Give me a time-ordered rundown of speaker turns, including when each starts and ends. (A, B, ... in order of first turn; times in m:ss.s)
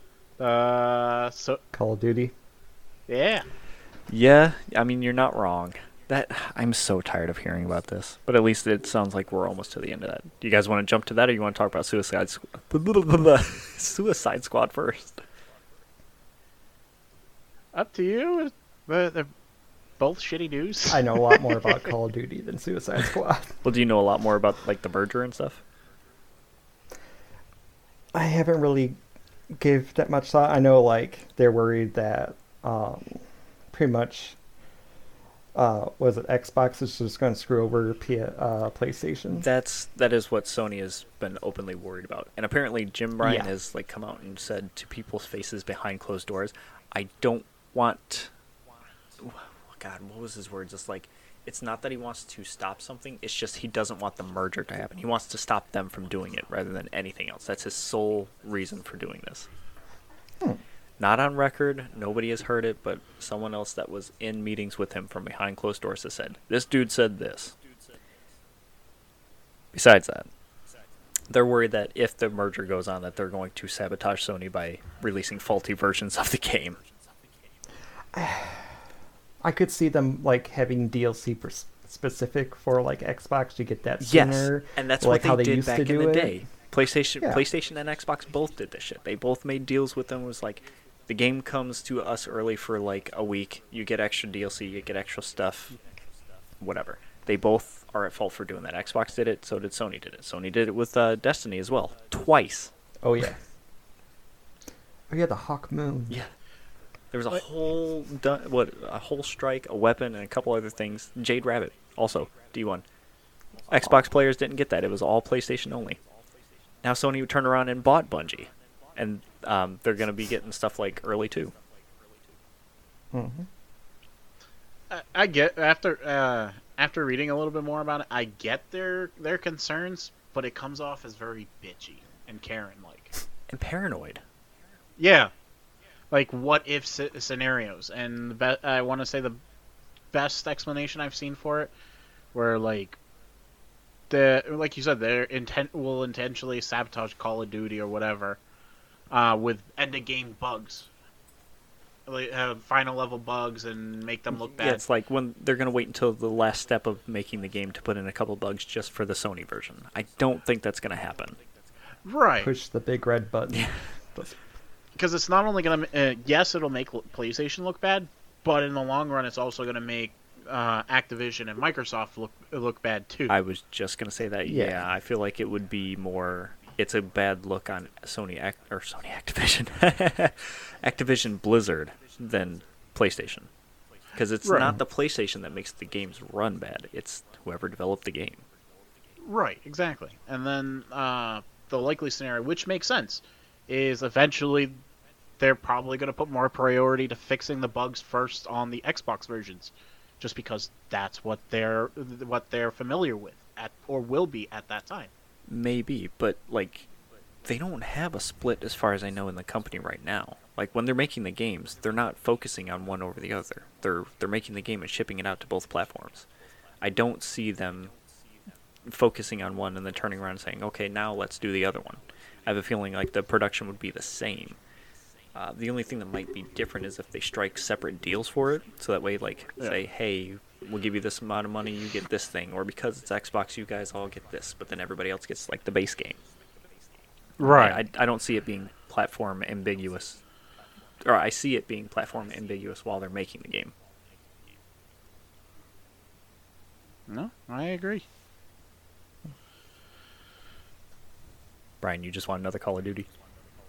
0:00.4-0:01.6 A
0:01.7-0:02.3 B
0:03.1-0:03.4 A
0:04.1-0:15.2 C
0:17.7-0:19.3 A
0:20.0-0:21.7 A
0:20.9-0:23.6 B
0:23.6-0:25.6 C
0:28.1-0:29.0 B
0:29.5-0:34.4 B
0:35.5-0:39.4 B
0:39.3-0:48.3 C
0:43.2-0:43.5 B
0:49.2-0:59.5 C
1:01.0-1:07.5 C
1:09.7-1:10.3 C
1:11.3-1:16.8 C
1:18.1-1:18.7 B
1:19.4-1:26.4 B
1:24.0-1:35.8 C
1:36.6-1:42.7 C
1:43.0-1:43.4 B
1:45.1-1:46.2 B
1:47.1-1:52.8 C
1:53.7-1:56.0 C
1:56.8-2:01.5 C
2:03.1-2:03.5 B
2:04.9-2:13.1 A
2:13.5-2:14.2 C
2:15.0-2:15.3 A
2:16.1-2:19.4 A
2:20.1-2:21.7 A
2:22.3-2:23.0 A
2:24.1-2:28.4 A
2:29.1-2:30.9 A
2:32.1-2:34.8 A
2:34.6-2:41.4 C
2:42.0-2:42.5 A
2:42.4-2:44.4 B
2:45.0-2:53.3 A
2:53.3-3:03.5 C
2:54.4-2:54.8 B
3:04.1-3:08.4 C
3:04.4-3:04.7 A
3:09.2-3:14.8 A
3:15.4-3:25.1 A
3:25.5-3:26.9 C
3:27.4-3:36.3 C
3:36.8-3:37.9 C
3:38.8-3:44.6 C
3:45.3-3:56.2 C
3:57.4-3:57.8 A
3:57.4-4:00.2 C
4:01.0-4:03.7 C
4:07.1-4:08.0 A
4:11.8-4:13.1 C